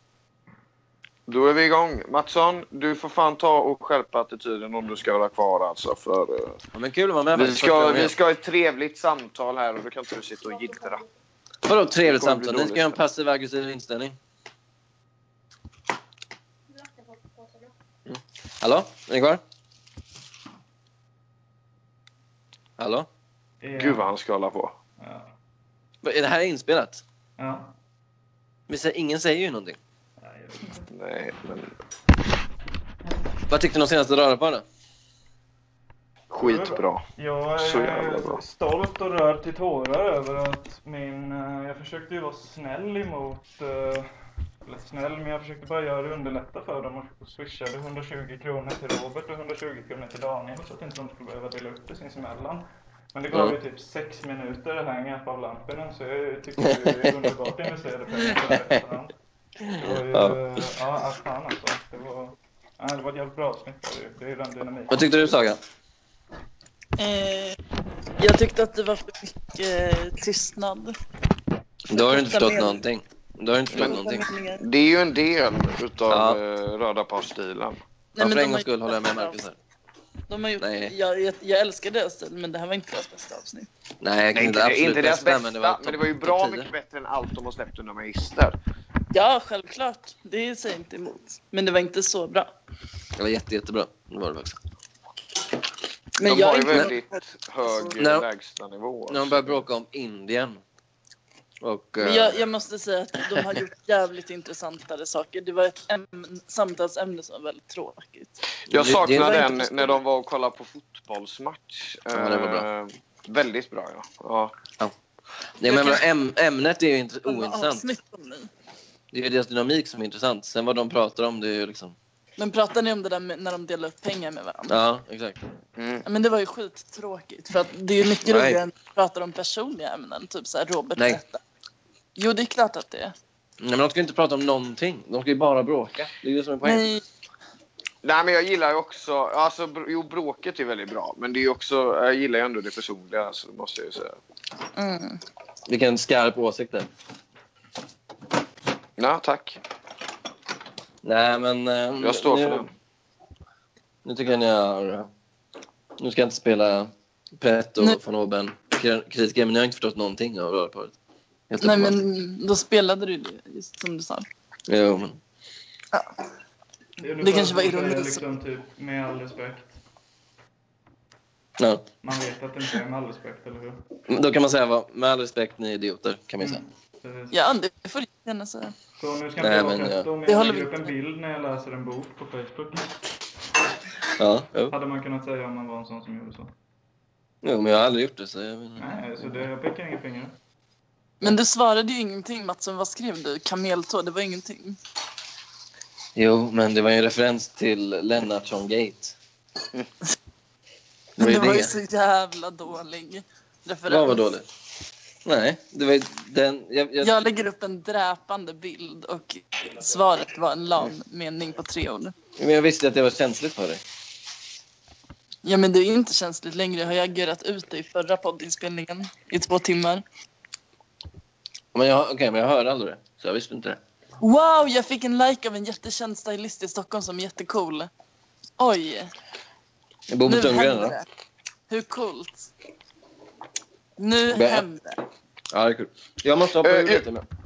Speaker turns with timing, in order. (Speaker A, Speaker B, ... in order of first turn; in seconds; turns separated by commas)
Speaker A: 1.3-6.6, Speaker B: 6.7-8.1, Speaker A: 7.3-11.0, Speaker B: 11.7-14.2, Speaker A: 12.0-13.0, Speaker B: 18.1-19.4, Speaker B: 22.8-23.1, Speaker C: 23.6-24.1, Speaker A: 23.8-24.7, Speaker C: 25.0-25.3, Speaker B: 26.0-27.0, Speaker C: 27.4-27.7, Speaker B: 28.7-29.8, Speaker C: 30.2-30.9, Speaker A: 30.9-31.7, Speaker B: 33.5-34.6, Speaker A: 36.3-37.0, Speaker C: 36.4-44.1, Speaker A: 37.6-38.4, Speaker C: 44.6-59.1, Speaker B: 59.7-60.4, Speaker C: 59.8-65.4, Speaker B: 64.9-65.6, Speaker D: 67.0-67.6, Speaker D: 68.2-70.9, Speaker B: 71.9-74.3, Speaker D: 71.9-72.8, Speaker A: 73.7-74.0, Speaker D: 73.8-74.6, Speaker A: 74.6-77.8, Speaker B: 76.1-76.4, Speaker D: 78.2-79.4, Speaker B: 78.2-79.6, Speaker D: 80.3-83.7, Speaker B: 80.6-80.9, Speaker B: 84.0-86.7, Speaker A: 84.3-88.6, Speaker D: 89.1-92.5, Speaker B: 93.2-94.6, Speaker D: 96.2-97.1, Speaker A: 96.2-99.7, Speaker B: 98.0-98.3, Speaker B: 99.1-100.6, Speaker B: 101.6-102.4, Speaker D: 102.0-108.4, Speaker B: 108.7-109.4, Speaker A: 108.7-114.5, Speaker D: 109.1-110.0, Speaker B: 112.1-112.7, Speaker B: 115.6-117.9, Speaker D: 115.7-116.0, Speaker D: 117.3-118.5, Speaker B: 119.1-122.0, Speaker D: 122.4-124.7, Speaker B: 124.7-125.4, Speaker A: 125.8-126.0, Speaker D: 126.0-131.4, Speaker B: 128.2-128.6, Speaker D: 132.2-133.1, Speaker B: 133.6-136.9, Speaker D: 136.6-137.0, Speaker A: 138.0-144.2, Speaker D: 144.8-145.2, Speaker B: 145.7-146.9, Speaker A: 149.0-149.6, Speaker B: 151.0-152.7, Speaker A: 152.0-152.7, Speaker B: 154.1-155.1, Speaker B: 156.0-161.0, Speaker B: 161.5-162.0, Speaker D: 161.6-164.3, Speaker B: 164.7-165.2, Speaker C: 167.0-169.8, Speaker D: 167.2-168.2, Speaker B: 171.6-171.8, Speaker C: 172.0-173.8, Speaker B: 174.1-176.6, Speaker C: 176.4-177.4, Speaker D: 177.3-178.8, Speaker C: 179.0-183.0, Speaker B: 179.4-180.1, Speaker D: 180.2-180.7, Speaker B: 184.2-184.7, Speaker C: 184.7-186.5, Speaker B: 187.4-188.8, Speaker C: 188.8-190.4, Speaker D: 191.2-194.8, Speaker B: 196.2-199.2, Speaker B: 201.2-201.8, Speaker D: 201.2-204.3, Speaker B: 203.9-204.5, Speaker B: 205.2-207.1, Speaker D: 207.0-212.1, Speaker B: 212.4-213.8, Speaker D: 215.4-220.0, Speaker B: 221.7-223.8, Speaker D: 224.2-227.9, Speaker D: 228.6-229.1, Speaker B: 230.1-231.0, Speaker D: 230.3-231.1, Speaker D: 231.7-232.5, Speaker D: 234.0-235.0, Speaker B: 234.3-234.7, Speaker B: 235.5-237.3, Speaker A: 236.6-237.1